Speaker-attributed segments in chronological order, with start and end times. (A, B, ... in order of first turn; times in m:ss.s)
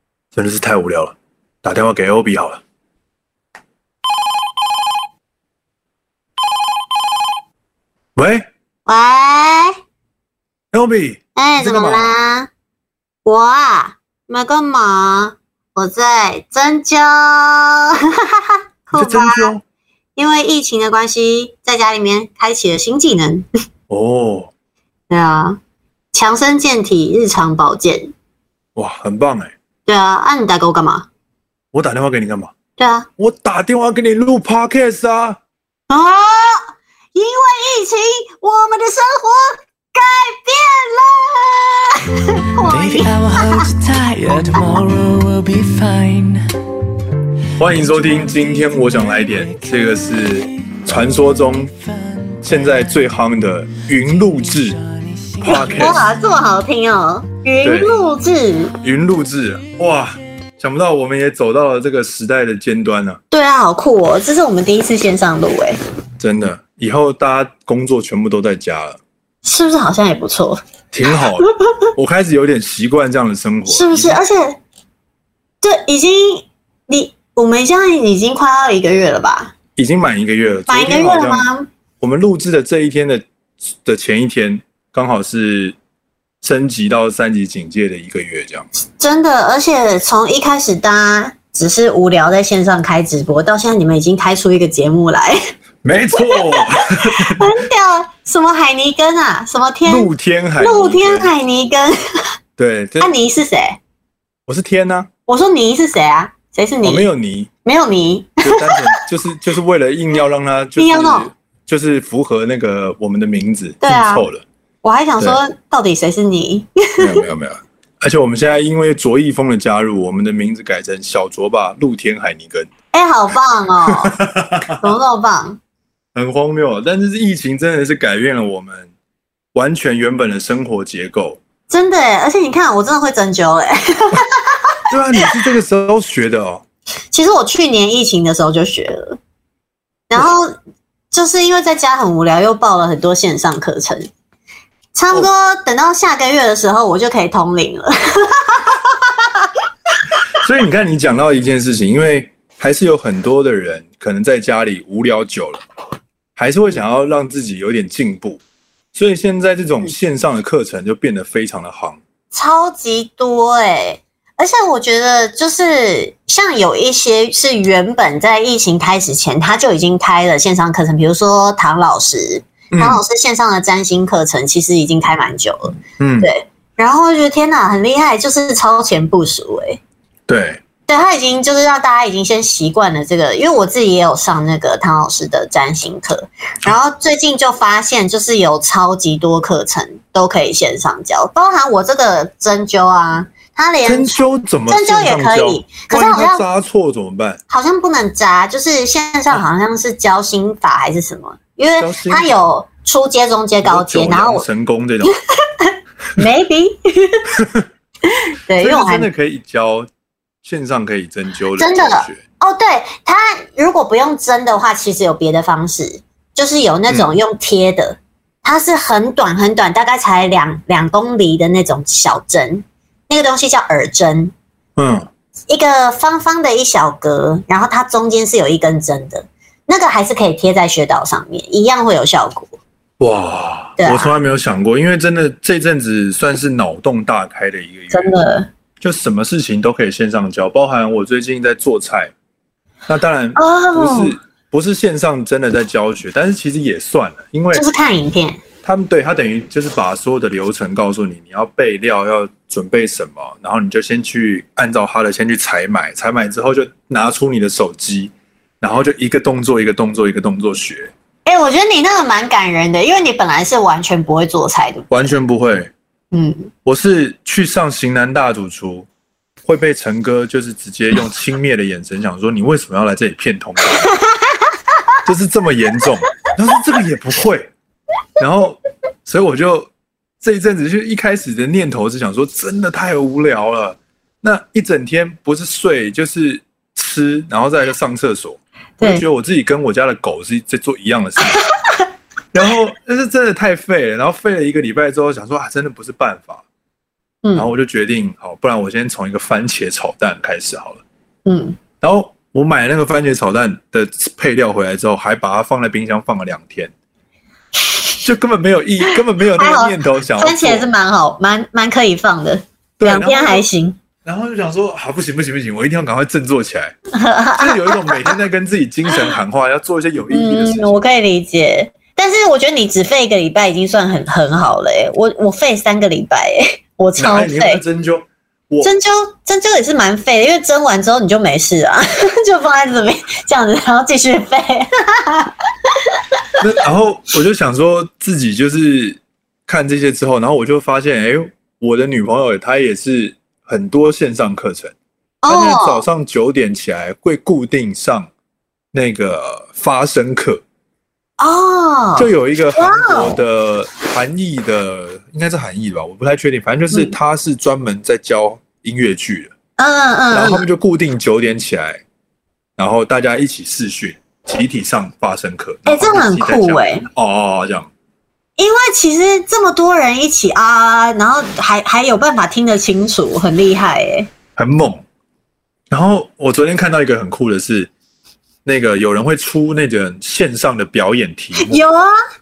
0:00.3-0:02.6 A
0:08.2-0:08.5 A
0:08.8-0:09.8 B
0:10.7-0:12.1 A
0:11.4-0:12.5 B
0:13.2-0:19.5 B
0:18.9-0:19.6 A
0:20.2-0:23.5 B
0:23.9-0:24.5 A
0:25.1-0:25.6 B
0:26.1-0:28.1 B
0:28.8-0:29.5 A
0:29.9-0:31.1 B
0:31.7-0:32.5 A
0:32.8-0:33.1 B
0:33.2-0:35.4 A
0:35.9-0:43.6 B
0:42.6-0:46.4 C
0:47.6-0:51.7 A
0:47.8-0:49.7 C
0:51.9-0:52.8 C
0:52.4-0:54.8 A
0:54.9-0:56.0 C
0:55.4-0:56.1 A
0:55.4-0:58.7 B
0:57.6-0:58.0 A
0:58.8-1:03.2 A
1:03.3-1:05.8 B
1:06.2-1:09.0 A
1:09.4-1:10.6 B
1:10.9-1:14.2 A
1:13.7-1:14.6 B
1:15.6-1:19.5 B
1:19.8-1:21.5 A
1:20.7-1:21.7 B
1:22.0-1:23.2 A
1:23.8-1:25.7 A
1:26.4-1:28.7 A
1:29.0-1:35.4 B
1:35.8-1:37.6 A
1:36.2-1:40.1 B
1:39.8-1:41.3 A
1:40.6-1:42.2 B
1:42.6-1:43.1 A
1:43.0-1:43.8 B
1:44.5-1:45.1 A
1:45.3-1:47.1 B
1:46.8-1:47.5 A
1:47.6-1:48.8 B
1:48.4-1:54.4 A
1:50.8-1:51.3 B
1:53.8-1:54.2 B
1:54.8-1:57.2 B
1:57.0-2:02.7 A
2:02.9-2:04.2 B
2:03.9-2:04.8 A
2:04.7-2:05.6 B
2:06.1-2:08.9 A
2:09.5-2:11.4 A
2:11.7-2:14.8 B
2:14.9-2:16.6 A
2:17.1-2:19.2 B
2:20.1-2:20.6 B
2:21.1-2:24.1 B
2:24.9-2:29.6 B
2:30.3-2:35.6 A
2:36.4-2:38.4 A
2:38.9-2:42.0 A
2:42.3-2:59.8 B
2:52.7-2:53.0 A
2:56.0-2:56.3 A
3:00.3-3:00.6 A
3:00.9-3:16.4 B
3:13.8-3:17.4 A
3:17.5-3:24.4 B
3:21.8-3:22.3 A
3:23.6-3:25.2 A
3:25.1-3:27.2 B
3:27.4-3:27.6 A
3:28.1-3:29.1 B
3:28.6-3:29.9 A
3:30.4-3:32.2 A
3:31.6-3:44.3 B
3:44.8-3:45.1 A
3:45.5-3:52.6 B
3:53.0-3:58.2 A
3:53.8-3:54.1 B
3:57.9-3:58.5 B
3:58.8-4:02.1 A
4:02.9-4:07.6 A
4:03.4-4:04.2 B
4:07.5-4:08.4 B
4:08.6-4:20.9 A
4:21.2-4:25.1 B
4:24.9-4:25.7 A
4:26.1-4:26.5 B
4:26.6-4:28.9 A
4:29.4-4:33.9 A
4:33.9-4:34.4 B
4:35.0-4:37.5 A
4:38.2-4:39.7 A
4:40.2-4:51.4 A
4:48.8-4:49.0 B
4:52.3-4:56.4 A
4:57.2-4:57.5 B
4:57.3-5:00.8 A
5:01.2-5:01.6 B
5:01.8-5:06.7 A
5:07.6-5:08.0 B
5:08.0-5:10.7 A
5:09.4-5:13.8 B
5:12.8-5:13.5 A
5:14.0-5:16.7 A
5:16.9-5:18.2 B
5:17.4-5:20.8 A
5:20.1-5:27.6 B
5:27.0-5:28.7 A
5:28.6-5:36.2 B
5:36.4-5:44.7 A
5:45.2-5:45.8 B
5:45.3-5:48.1 A
5:48.7-5:50.4 A
5:51.2-5:53.2 B
5:52.0-5:59.3 A
5:59.6-6:00.4 B
6:00.1-6:01.8 A
6:02.6-6:07.7 A
6:05.6-6:06.9 B
6:08.4-6:14.1 B
6:14.4-6:14.8 A
6:15.7-6:17.7 A
6:18.4-6:21.6 A
6:21.4-6:21.9 B